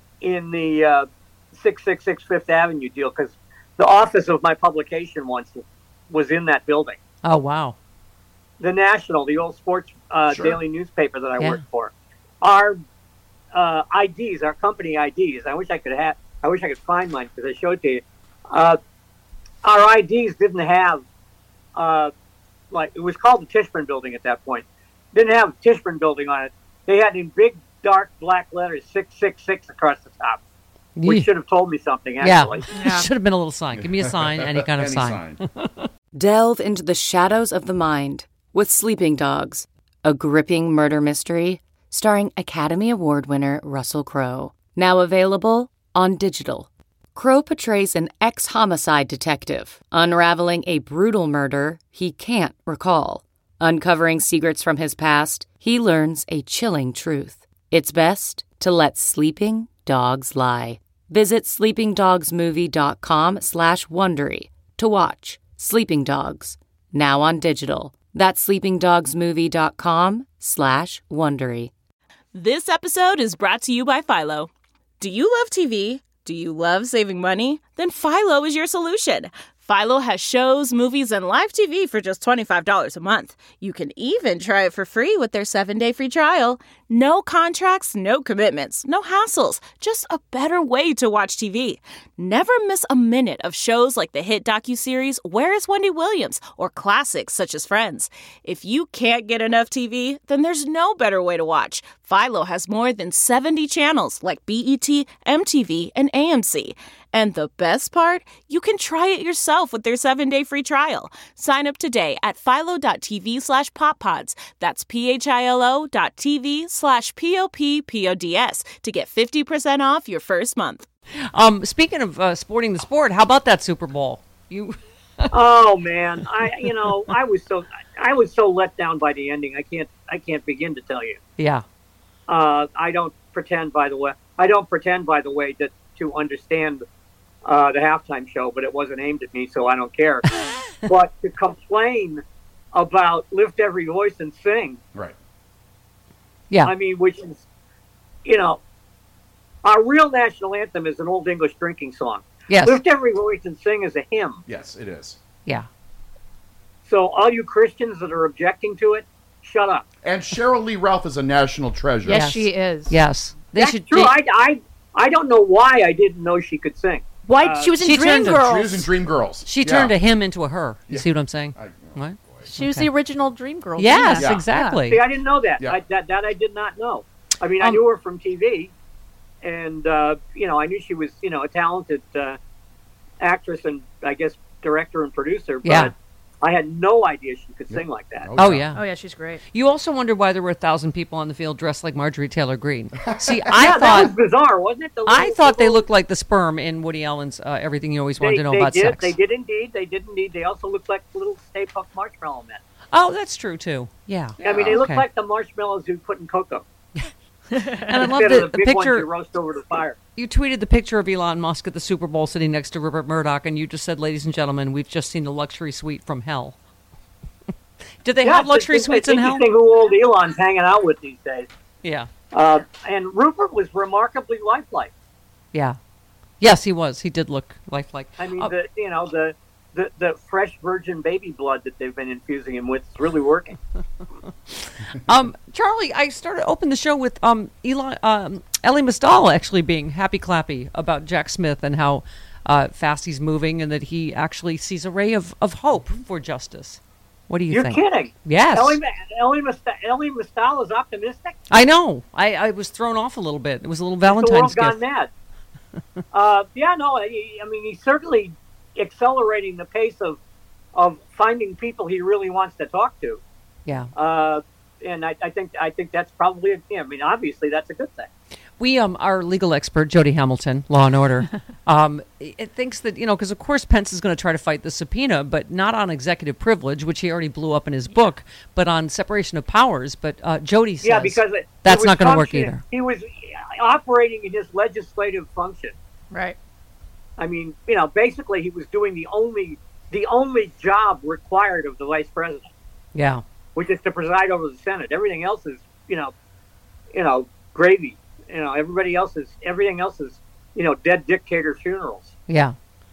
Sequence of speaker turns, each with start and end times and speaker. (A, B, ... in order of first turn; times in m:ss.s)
0:00.2-0:07.0 A
0:07.2-0:07.8 B
0:08.6-0:12.8 A
0:13.5-0:18.8 A
0:19.6-0:21.0 A
0:21.8-0:22.1 A
0:22.7-0:30.4 A
0:31.0-0:31.3 B
0:31.0-0:32.6 A
0:32.2-0:35.9 B
0:32.7-0:33.1 C
0:33.7-0:35.4 D
0:36.1-1:11.7 E
1:12.3-1:14.5 F
1:15.0-2:00.8 F
2:01.3-2:05.3 B
2:05.3-2:11.2 A
2:11.4-2:11.6 B
2:12.3-2:16.8 A
2:17.4-2:20.2 A
2:20.8-2:22.2 A
2:22.7-2:24.8 A
2:26.6-2:27.4 A
2:28.2-2:28.6 A
2:29.6-2:34.4 A
2:32.5-2:32.8 B
2:34.5-2:35.2 D
2:36.8-2:39.8 A
2:40.0-2:42.5 D
2:42.0-2:43.0 C
2:42.1-2:44.1 B
2:43.6-2:47.8 A
2:47.2-2:48.9 C
2:47.8-2:48.4 B
2:47.9-2:50.0 D
2:49.4-2:52.9 B
2:50.9-2:52.5 D
2:52.5-2:54.8 C
2:53.8-2:55.0 B
2:54.2-2:54.5 D
2:54.9-2:58.7 A
2:59.4-3:02.4 A
3:03.2-3:08.3 A
3:05.6-3:05.9 B
3:07.7-3:08.8 D
3:08.4-3:08.8 B
3:08.7-3:09.4 C
3:09.5-3:14.1 B
3:13.6-3:15.8 A
3:15.0-3:19.1 B
3:18.2-3:22.6 A
3:22.9-3:25.0 B
3:24.4-3:26.6 A
3:27.8-3:29.1 B
3:27.9-3:30.0 A
3:30.2-3:36.6 B
3:38.0-3:39.4 B
3:38.2-3:41.5 A
3:41.8-3:42.1 B
3:42.3-3:44.9 A
3:46.4-3:48.5 B
3:48.2-3:53.6 A
3:54.9-4:08.8 B
4:07.5-4:11.4 A
4:11.5-4:14.8 B
4:14.0-4:15.1 A
4:16.1-4:20.2 A
4:20.7-4:23.2 A
4:23.6-4:23.9 B
4:23.9-4:28.1 A
4:28.6-4:42.6 B
4:40.8-4:45.7 A
4:46.1-4:46.4 C
4:47.2-4:52.5 A
4:52.9-4:53.2 B
4:53.6-4:56.1 A
4:56.9-5:02.1 A
5:02.3-5:02.5 B